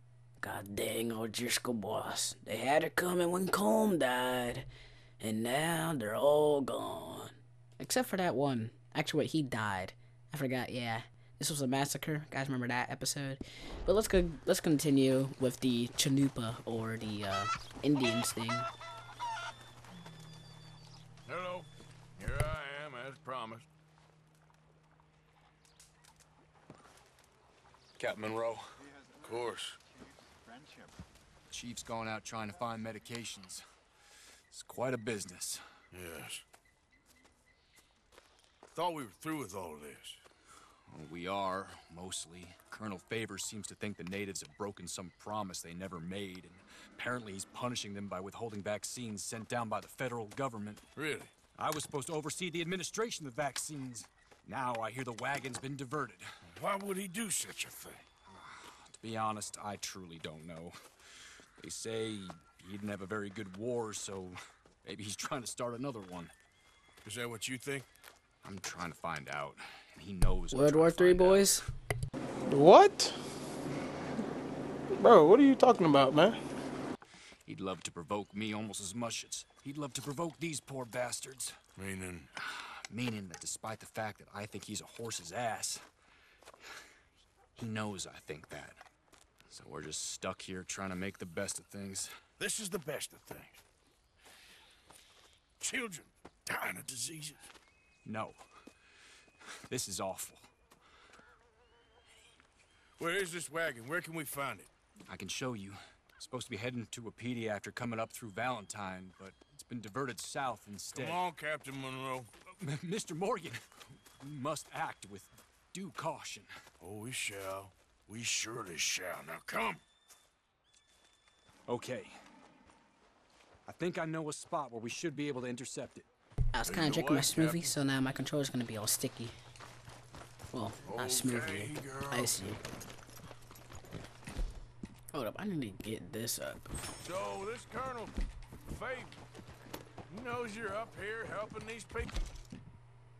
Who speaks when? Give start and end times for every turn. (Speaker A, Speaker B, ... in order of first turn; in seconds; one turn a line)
Speaker A: 0.4-4.7
Speaker A: 5.2-18.7
Speaker B: 21.3-23.6
Speaker C: 28.0-28.6
Speaker B: 29.2-29.8
Speaker C: 31.5-33.6
Speaker C: 34.5-35.6
Speaker B: 35.9-36.4
Speaker B: 38.7-40.2
Speaker C: 40.9-50.8
Speaker B: 51.0-51.3
Speaker C: 51.5-56.3
Speaker B: 56.4-58.0
Speaker C: 58.3-66.3
Speaker B: 67.0-67.9
Speaker C: 68.4-71.5
Speaker A: 70.5-71.7
Speaker D: 72.5-73.2
Speaker D: 74.9-76.4
Speaker C: 77.5-81.6
Speaker B: 81.8-82.3
Speaker C: 82.4-85.8
Speaker C: 87.5-88.8
Speaker C: 89.5-92.1
Speaker B: 92.4-93.6
Speaker B: 95.6-97.5
Speaker C: 98.0-98.4
Speaker C: 99.7-100.5
Speaker B: 103.0-104.7
Speaker C: 105.1-111.2
Speaker B: 110.9-112.3
Speaker C: 112.5-116.5
Speaker B: 116.8-119.8
Speaker C: 121.7-122.2
Speaker C: 123.7-126.1
Speaker A: 126.5-129.3
Speaker B: 126.6-127.7
Speaker A: 130.5-132.6
Speaker B: 130.8-132.4
Speaker A: 135.1-136.7
Speaker B: 137.0-139.2
Speaker B: 140.1-142.2